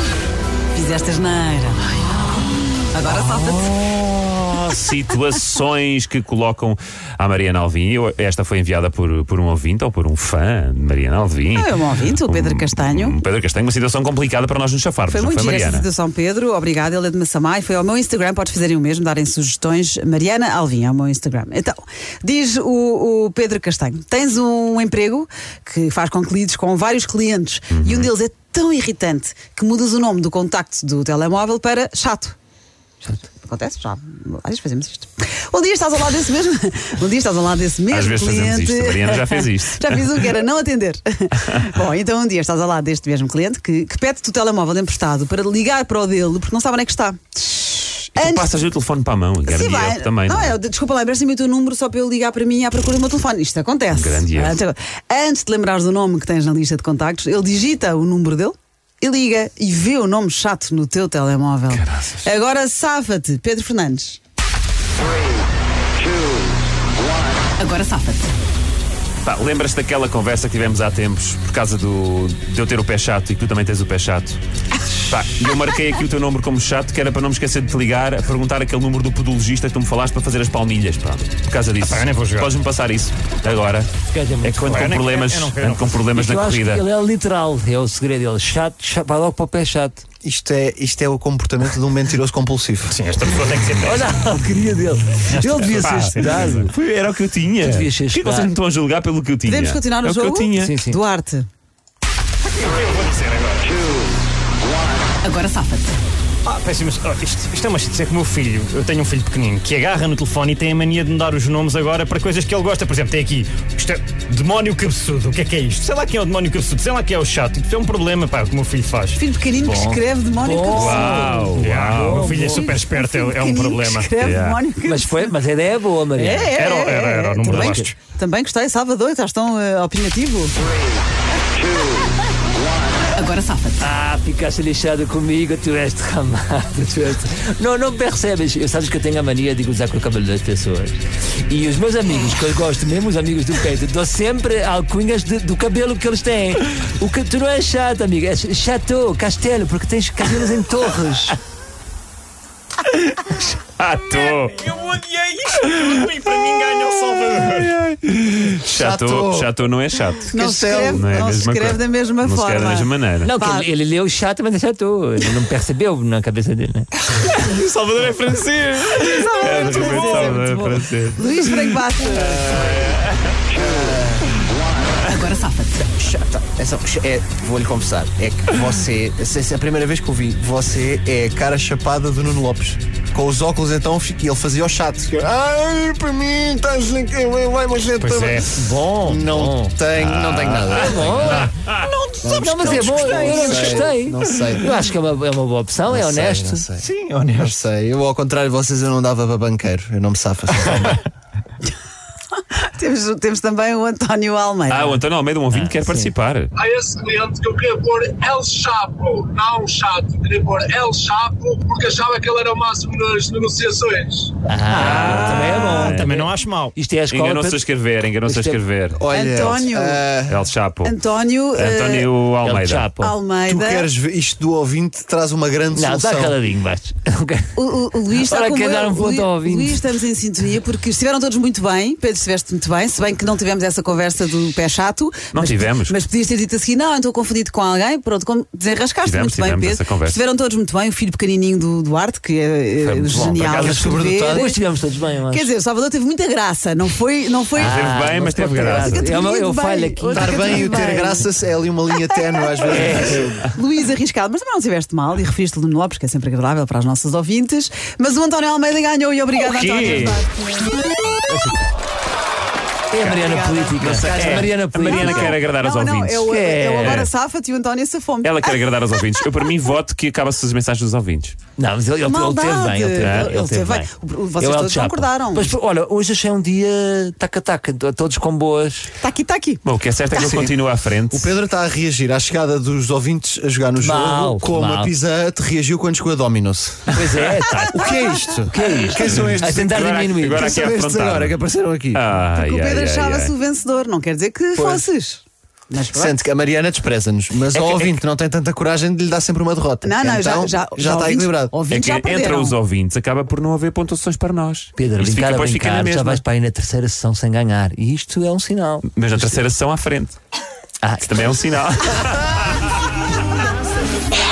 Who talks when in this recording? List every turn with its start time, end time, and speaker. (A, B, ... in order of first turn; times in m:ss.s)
0:00.7-0:03.8 A
0:03.0-0:15.8 B
0:11.5-0:13.2 A
0:15.1-0:32.4 A
0:27.7-0:28.1 B
0:33.3-0:48.5 A
0:37.9-0:40.1 B
0:48.1-0:50.6 B
0:49.4-1:04.2 A
0:53.9-0:54.6 B
1:01.7-1:02.2 B
1:07.6-1:08.4 A
1:09.2-1:14.4 B
1:15.0-1:23.9 B
1:21.8-1:22.5 C
1:24.1-1:24.8 D
1:24.4-1:26.8 B
1:24.6-1:26.1 C
1:26.1-1:30.0 D
1:30.2-1:33.0 E
1:32.9-1:34.3 C
1:33.8-1:36.7 D
1:35.3-1:36.5 C
1:35.6-1:40.8 B
1:37.6-1:38.5 D
1:39.5-1:41.5 A
1:40.6-1:41.0 D
1:42.4-1:44.0 C
1:45.2-1:46.0 A
1:46.4-1:59.2 C
1:59.2-2:01.4 A
1:59.6-2:02.7 D
2:00.7-2:02.2 B
2:00.7-2:04.2 C
2:02.1-2:05.4 A
2:04.2-2:04.6 B
2:04.8-2:06.6 D
2:06.2-2:08.0 C
2:06.2-2:10.5 A
2:07.4-2:07.9 D
2:13.1-2:13.8 A
2:13.8-2:31.4 D
2:32.8-2:34.7 B
2:34.2-2:37.8 C
2:37.4-2:43.3 B
2:38.7-2:39.5 E
2:40.3-2:43.7 A
2:40.3-2:41.0 E
2:43.2-2:46.9 D
2:47.2-2:53.4 B
2:49.0-2:52.7 A
2:53.5-2:54.5 E
2:54.3-2:55.1 B
2:55.0-2:55.8 A
2:56.0-3:11.5 E
3:08.0-3:08.5 C
3:08.5-3:09.7 D
3:09.9-3:11.8 B
3:10.6-3:11.5 D
3:11.8-3:14.0 A
3:12.2-3:14.8 E
3:12.2-3:16.7 D
3:15.9-3:21.0 E
3:16.8-3:17.6 C
3:22.5-3:25.0 A
3:24.7-3:26.5 B
3:25.5-3:26.1 D
3:26.6-3:34.3 F
3:34.5-3:37.7 D
3:34.7-3:36.7 C
3:34.7-3:36.3 B
3:37.1-3:39.0 B
3:38.2-3:38.6 D
3:39.0-3:40.5 E
3:39.1-3:40.0 A
3:40.3-3:40.9 B
3:40.8-3:42.1 A
3:41.5-3:42.9 B
3:42.4-3:43.1 D
3:43.0-3:43.9 A
3:43.4-3:46.4 E
3:45.7-3:49.8 D
3:47.6-4:04.6 A
3:55.3-3:55.9 B
3:59.0-4:00.2 B
4:02.8-4:03.9 B
4:03.4-4:04.5 E
4:04.2-4:05.5 D
4:05.3-4:08.0 A
4:07.6-4:11.0 D
4:07.6-4:09.1 B
4:08.5-4:11.3 A
4:10.1-4:13.5 E
4:12.1-4:20.3 A
4:12.7-4:13.3 D
4:19.4-4:20.2 B
4:21.3-4:21.6 D
4:22.9-4:25.4 D
4:23.0-4:24.2 A
4:23.8-4:27.1 B
4:23.8-4:24.5 E
4:24.8-4:29.3 A
4:26.2-4:27.1 D
4:28.2-4:31.4 B
4:31.6-4:38.9 D
4:32.0-4:35.5 A
4:33.0-4:33.3 B
4:39.0-4:39.6 A
4:39.6-4:41.3 B
4:40.1-4:40.6 E
4:41.1-4:47.0 E
4:43.8-4:44.9 D
4:46.9-4:50.7 D
4:47.7-4:52.0 E
4:49.0-4:51.4 B
4:51.9-4:53.3 B
4:52.3-4:56.3 A
4:55.9-5:01.5 E
4:57.5-4:58.0 B
4:59.8-5:02.6 A
5:01.7-5:06.2 B
5:04.8-5:09.4 D
5:08.9-5:10.2 B
5:10.8-5:11.3 D
5:11.0-5:12.8 B